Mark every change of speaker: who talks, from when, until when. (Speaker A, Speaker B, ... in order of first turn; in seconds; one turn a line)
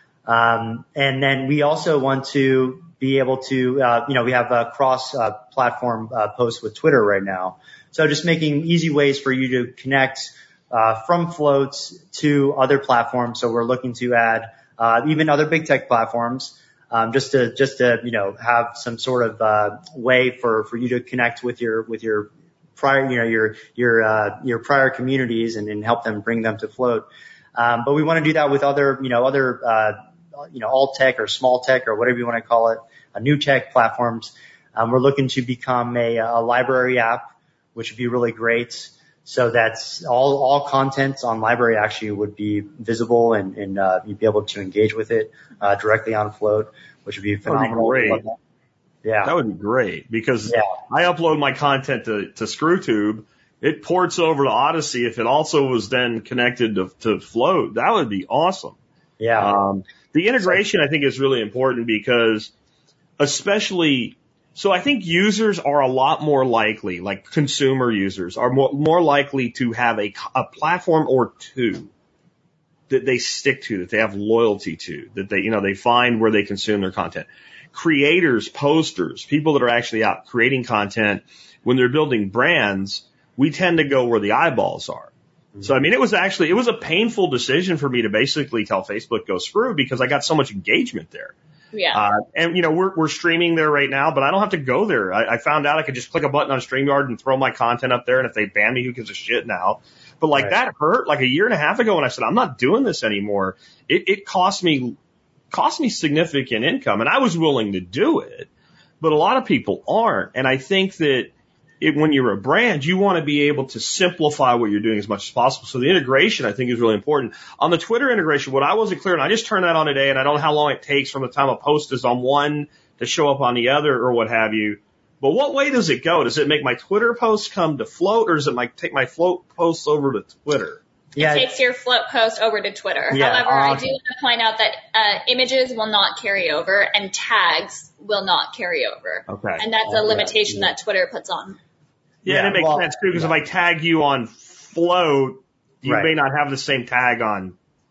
Speaker A: 0.3-48.4
Speaker B: 47.5-48.2
Speaker A: 49.0-49.3
Speaker B: 49.2-58.8
Speaker A: 59.2-59.5
Speaker B: 59.4-62.5
Speaker B: 63.2-71.9
Speaker B: 72.9-91.3
Speaker C: 91.7-92.0
Speaker B: 91.9-105.0
Speaker B: 105.5-108.5
Speaker B: 109.0-130.8
Speaker A: 131.2-131.5
Speaker C: 131.2-141.6
Speaker A: 133.1-133.8
Speaker B: 139.3-139.6
Speaker A: 139.8-140.7
Speaker B: 142.2-147.6
Speaker A: 142.3-143.3
Speaker A: 145.8-146.1